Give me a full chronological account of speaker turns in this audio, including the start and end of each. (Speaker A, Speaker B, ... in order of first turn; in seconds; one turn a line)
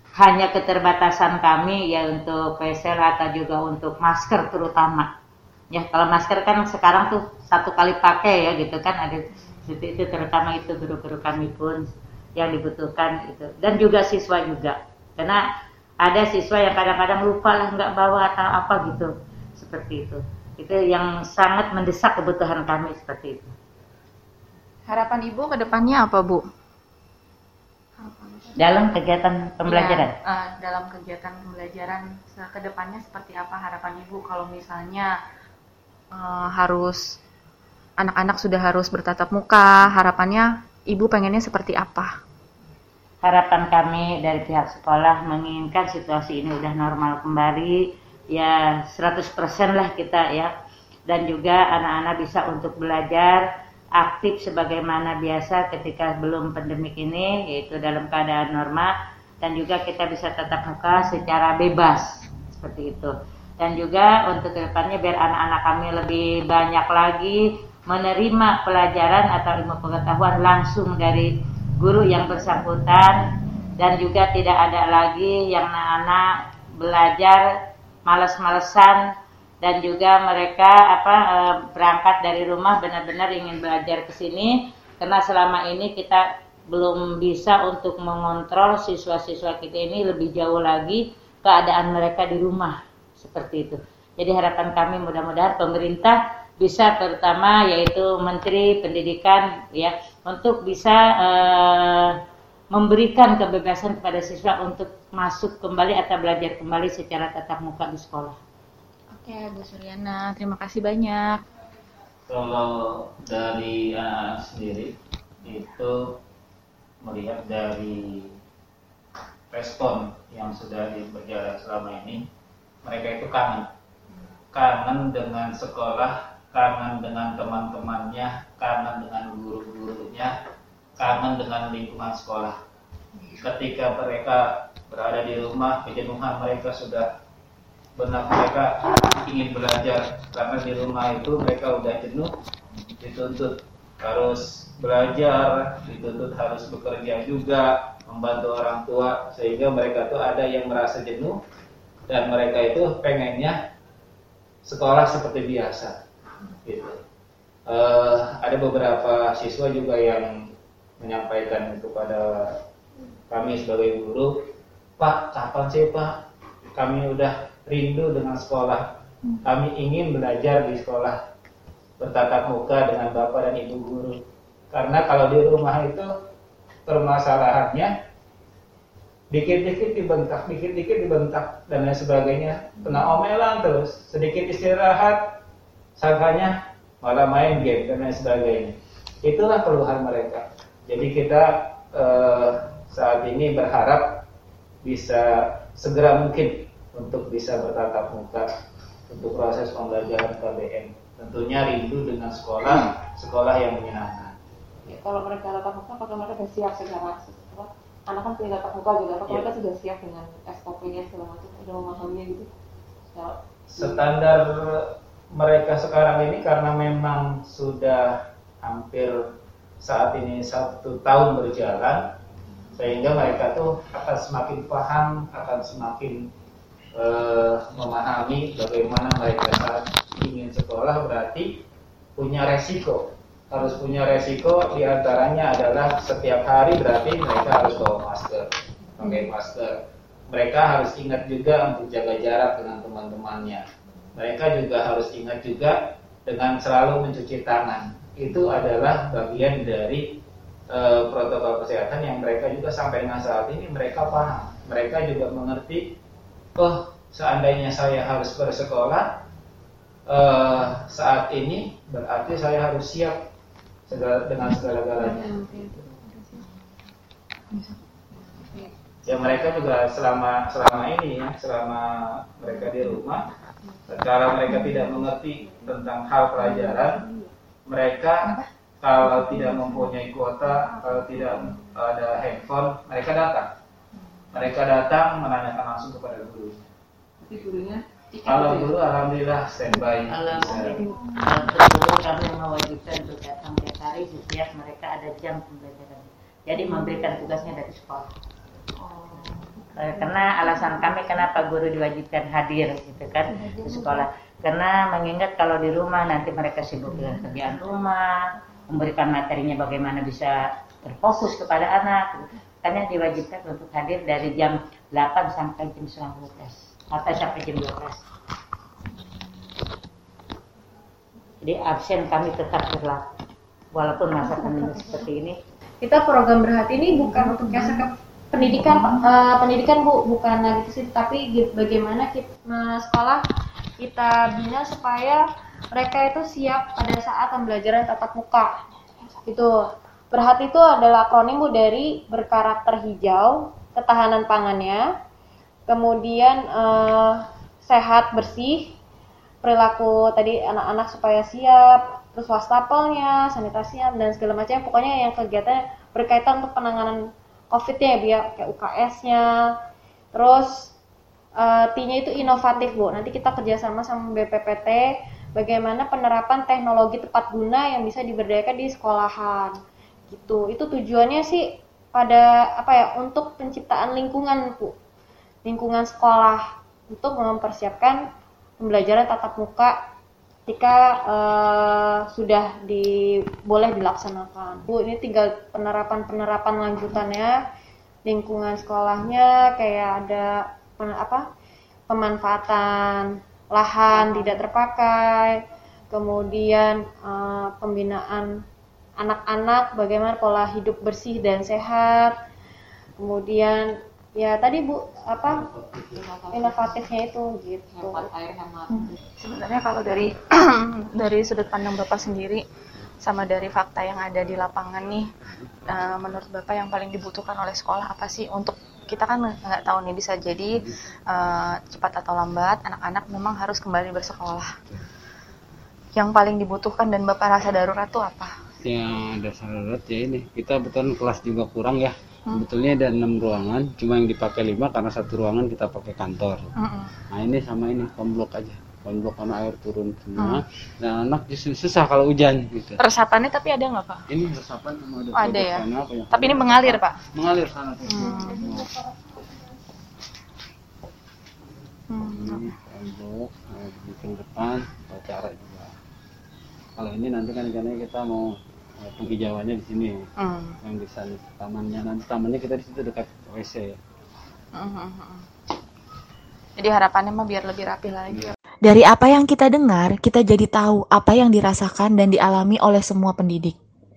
Speaker A: 0.2-5.1
Speaker A: 5.7-11.8
Speaker A: 12.4-15.4
Speaker A: 16.0-23.5
Speaker B: 24.9-26.4
Speaker B: 28.0-28.6
Speaker A: 28.6-30.1
Speaker B: 29.6-35.1
Speaker B: 36.1-37.2
Speaker B: 38.0-42.1
Speaker A: 43.2-50.5
Speaker A: 51.1-53.4
Speaker A: 54.0-73.2
Speaker A: 73.8-76.3
Speaker A: 76.8-77.4
Speaker A: 78.1-79.0
Speaker A: 79.6-102.2
Speaker A: 102.7-108.4
Speaker B: 109.1-111.4
Speaker C: 112.3-116.2
Speaker C: 117.0-118.4
Speaker C: 119.5-122.2
Speaker C: 122.8-123.7
Speaker C: 124.5-130.3
Speaker C: 131.0-132.6
Speaker C: 133.4-137.1
Speaker C: 137.9-142.3
Speaker C: 143.0-151.4
Speaker C: 152.1-153.6
Speaker C: 154.6-155.9
Speaker C: 156.6-157.0
Speaker C: 157.7-162.6
Speaker C: 163.3-164.4
Speaker C: 165.0-166.2
Speaker C: 166.8-171.2
Speaker C: 172.0-176.1
Speaker C: 176.8-177.9
Speaker C: 179.3-185.3
Speaker C: 185.9-194.2
Speaker C: 194.8-198.5
Speaker C: 199.1-204.3
Speaker D: 204.9-212.5
Speaker C: 213.7-219.3
Speaker C: 219.8-222.1
Speaker C: 222.8-226.3
Speaker C: 226.9-231.6
Speaker C: 232.2-256.0
Speaker C: 256.6-259.2
Speaker C: 260.1-263.3
Speaker C: 263.9-265.4
Speaker D: 265.0-266.4
Speaker C: 269.1-273.2
Speaker C: 273.9-277.0
Speaker D: 276.5-277.3
Speaker C: 277.7-283.5
Speaker C: 284.3-286.7
Speaker D: 287.2-288.8
Speaker C: 288.2-290.8
Speaker A: 290.1-298.1
Speaker D: 290.4-291.0
Speaker A: 299.8-308.1
Speaker A: 308.7-318.0
Speaker A: 321.4-323.0
Speaker A: 323.7-325.4
Speaker E: 325.8-333.2
Speaker E: 333.8-335.2
Speaker E: 335.7-338.6
Speaker E: 339.2-344.8
Speaker E: 345.7-348.8
Speaker E: 349.4-357.0
Speaker E: 357.5-359.3
Speaker E: 360.1-360.7
Speaker E: 361.4-369.6
Speaker E: 370.1-374.7
Speaker E: 375.4-378.0
Speaker E: 378.6-379.8
Speaker E: 380.5-387.4
Speaker E: 388.1-391.2
Speaker E: 391.9-398.4
Speaker D: 393.9-394.4
Speaker E: 399.0-402.1
Speaker E: 403.0-405.4
Speaker D: 405.8-406.9
Speaker E: 406.3-408.1
Speaker D: 407.7-409.0
Speaker B: 408.9-412.4
Speaker B: 413.0-415.1
Speaker B: 415.7-424.5
Speaker B: 425.9-428.3
Speaker F: 428.6-436.5
Speaker B: 436.6-436.9
Speaker F: 437.1-442.8
Speaker B: 440.2-440.4
Speaker B: 442.8-444.0
Speaker F: 444.1-448.7
Speaker B: 445.1-447.0
Speaker B: 447.9-448.5
Speaker B: 451.9-452.5
Speaker F: 452.0-455.7
Speaker F: 456.8-460.1
Speaker B: 460.2-460.6
Speaker F: 460.6-463.8
Speaker B: 464.6-465.2
Speaker B: 466.6-468.3
Speaker G: 468.6-473.6